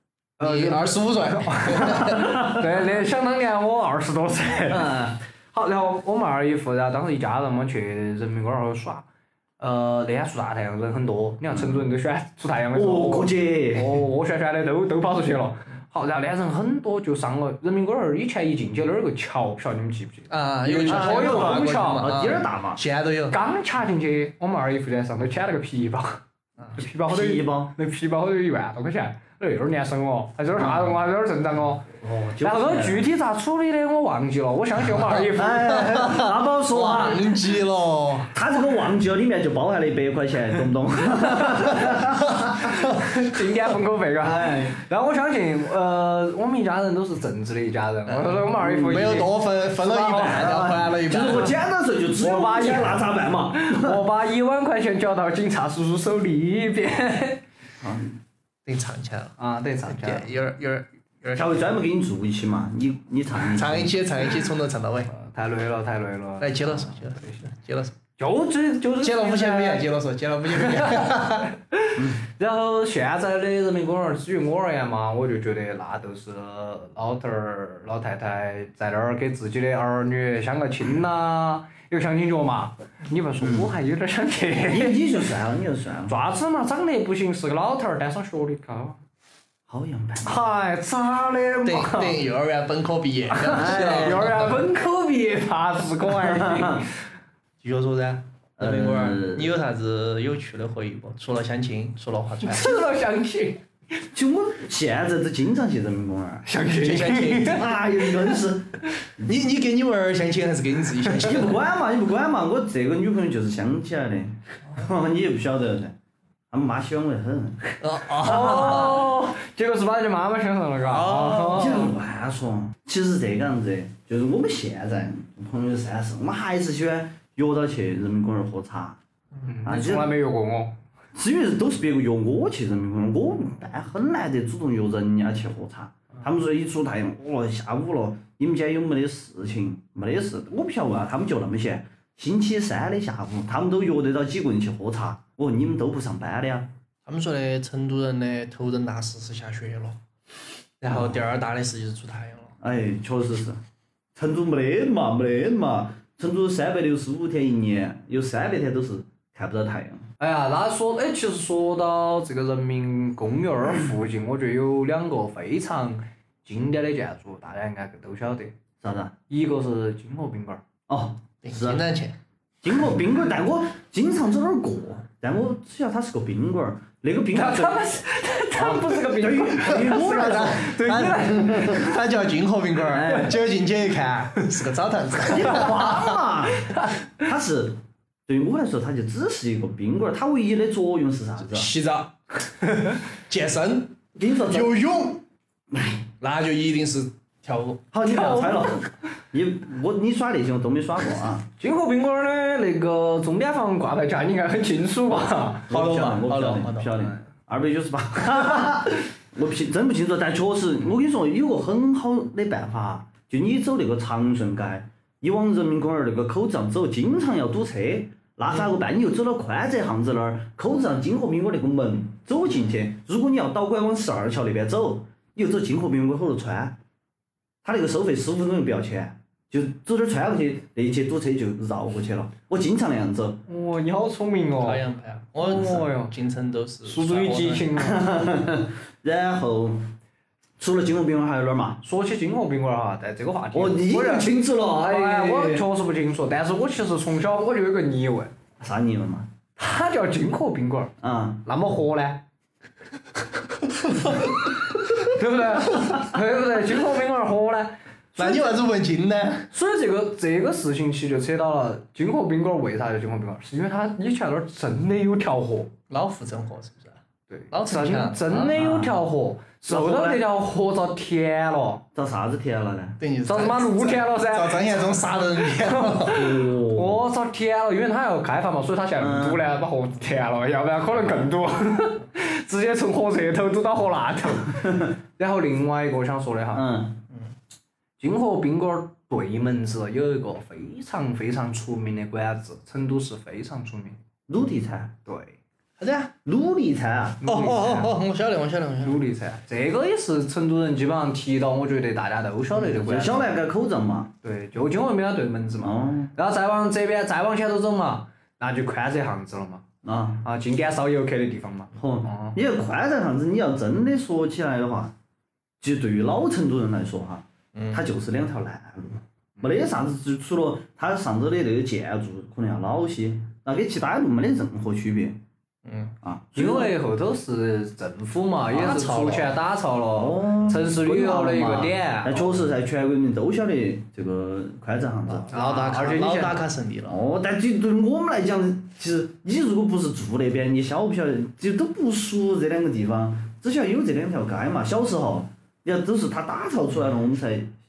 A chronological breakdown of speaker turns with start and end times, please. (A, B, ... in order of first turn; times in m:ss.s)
0:00.4-0:04.9 A
0:00.4-0:02.2 B
0:02.0-0:02.6 C
0:04.7-0:05.2 C
0:05.5-0:09.0 A
0:09.6-0:22.1 A
0:11.5-0:11.9 C
0:12.7-0:14.0 C
0:20.3-0:23.4 B
0:20.8-0:22.8 C
0:23.3-0:26.2 A
0:26.7-0:35.9 A
0:27.0-0:27.7 C
0:30.6-0:30.9 C
0:32.0-0:33.0 C
0:34.9-0:38.3 B
0:35.3-0:37.4 C
0:38.3-0:42.8 C
0:41.4-0:41.8 A
0:42.8-0:50.7 A
0:44.2-0:44.8 C
0:48.1-0:51.5 B
0:48.6-0:49.0 C
0:50.2-0:54.0 C
0:52.2-0:57.4 A
0:57.8-0:58.2 C
0:58.6-1:01.6 B
0:59.4-1:00.3 A
1:01.3-1:04.0 C
1:03.4-1:05.1 B
1:05.1-1:07.4 A
1:06.4-1:08.0 B
1:08.2-1:09.9 A
1:09.0-1:11.5 B
1:10.5-1:25.0 A
1:12.0-1:12.2 C
1:23.4-1:23.7 C
1:24.7-1:26.1 C
1:26.1-1:29.0 A
1:29.7-1:30.4 C
1:30.2-1:32.2 A
1:31.6-1:34.6 B
1:33.3-1:36.9 A
1:33.4-1:34.4 C
1:36.1-1:36.8 C
1:37.6-1:42.8 B
1:38.6-1:39.5 C
1:42.4-1:43.6 A
1:44.1-1:46.4 C
1:46.4-1:47.6 A
1:46.8-1:47.7 B
1:47.4-1:49.4 C
1:49.2-1:51.6 B
1:51.2-1:55.9 C
1:56.5-1:57.6 C
1:57.8-1:59.0 B
1:58.2-2:01.9 A
1:58.2-1:58.8 C
2:00.9-2:01.9 B
2:01.4-2:09.0 C
2:09.4-2:10.8 A
2:09.6-2:10.1 C
2:11.1-2:26.7 C
2:27.0-2:30.0 B
2:30.8-2:32.5 B
2:30.9-2:31.2 C
2:32.6-2:33.6 C
2:34.2-2:40.0 C
2:40.2-2:48.6 A
2:48.8-2:49.1 C
2:49.3-2:50.6 A
2:50.9-2:51.8 C
2:51.4-2:52.2 B
2:52.6-2:57.8 C
2:57.3-3:01.9 A
2:58.6-3:00.8 C
2:59.7-3:06.2 B
3:01.4-3:01.9 C
3:02.9-3:03.4 C
3:05.2-3:11.7 C
3:06.6-3:07.0 A
3:11.4-3:15.2 B
3:14.2-3:14.8 C
3:15.7-3:16.0 C
3:16.2-3:17.8 B
3:17.9-3:21.4 C
3:18.0-3:18.9 A
3:21.6-3:25.7 A
3:25.7-3:46.8 C
3:25.7-3:26.9 B
3:47.6-3:53.4 C
3:53.5-3:54.8 A
3:54.6-3:57.7 B
3:55.4-3:56.1 A
3:55.5-3:55.8 C
3:56.8-3:58.0 A
3:57.8-3:59.9 C
4:00.6-4:01.8 C
4:01.8-4:08.3 A
4:03.5-4:05.7 C
4:08.6-4:09.3 C
4:09.6-4:10.9 A
4:11.0-4:11.4 C
4:11.4-4:12.2 A
4:14.9-4:18.5 A
4:18.2-4:19.5 B
4:19.5-4:25.7 A
4:25.9-4:27.0 B
4:27.3-4:31.8 A
4:27.5-4:28.5 B
4:28.4-4:29.0 C
4:29.7-4:30.2 C
4:31.9-4:33.0 C
4:33.0-4:36.2 B
4:33.2-4:46.7 A
4:36.1-4:37.0 C
4:39.0-4:39.4 C
4:44.6-4:44.9 C
4:46.5-4:47.0 C
4:48.0-4:54.0 A
4:54.3-4:54.9 C
4:55.0-4:55.4 A
4:55.8-4:56.1 B
4:56.2-4:57.2 C
4:57.2-4:57.9 A
4:57.2-4:59.0 B
4:58.8-5:03.3 A
5:02.5-5:04.1 C
5:04.2-5:09.6 A
5:05.6-5:06.1 C
5:09.8-5:10.2 C
5:10.2-5:12.4 A
5:11.8-5:14.9 C
5:15.6-5:25.2 C
5:17.5-5:17.8 B
5:25.6-5:25.9 B
5:26.0-5:26.7 C
5:26.3-5:32.4 A
5:28.5-5:29.3 B
5:29.9-5:35.3 C
5:35.1-5:37.0 B
5:35.3-5:36.4 A
5:36.9-5:47.5 C